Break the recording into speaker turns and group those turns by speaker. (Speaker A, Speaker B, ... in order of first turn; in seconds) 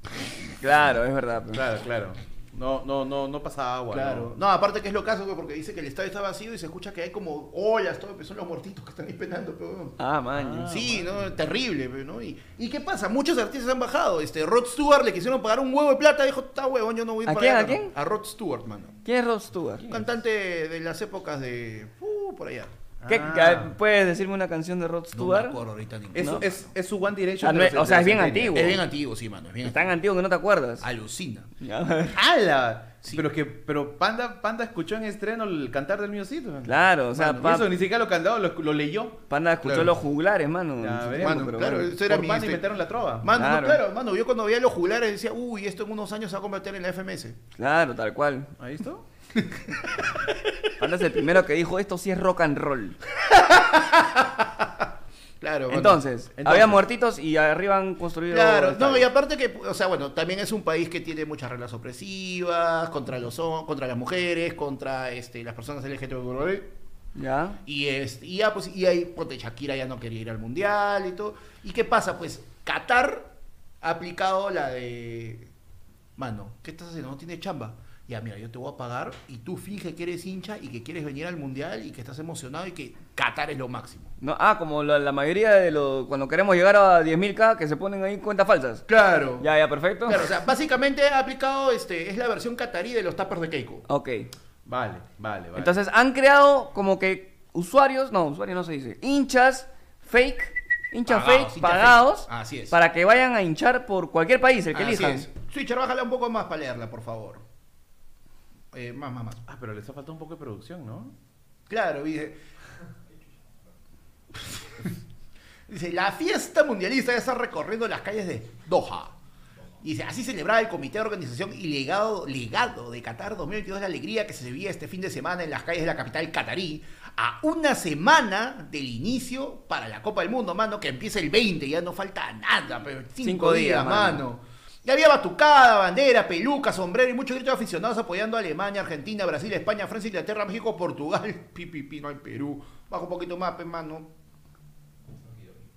Speaker A: 0.6-1.6, 10.0-10.7, 17.3-17.9, 19.1-19.9, 23.1-25.6, 26.2-26.4, 27.4-28.8, 29.6-30.9, 31.6-32.2, 36.7-37.7, 39.3-41.8, 43.4-43.8, 47.6-48.5, 50.8-53.0, 55.7-59.1, 67.2-67.6, 84.2-88.8, 89.4-90.3, 93.9-94.3, 95.6-105.3, 133.2-134.2
Speaker B: 1.5-4.3, 10.4-11.3, 23.0-23.7, 26.1-28.7, 32.1-39.2, 40.8-43.3, 48.6-49.0, 56.4-56.8, 94.7-95.7, 109.5-111.1
Speaker C: 3.9-10.0, 10.7-18.9, 19.9-22.7, 25.1-26.7, 28.5-29.8, 30.8-31.5, 39.6-39.9, 41.2-42.7, 43.2-47.4, 49.4-49.8, 53.3-54.9, 55.4-56.0, 58.3-66.7, 67.7-73.3, 73.8-75.5, 76.2-84.1, 88.9-89.5, 90.0-93.8, 101.1-102.8, 104.7-107.4, 108.7-109.4, 111.7-112.4, 114.3-114.9, 115.7-119.2, 119.8-144.1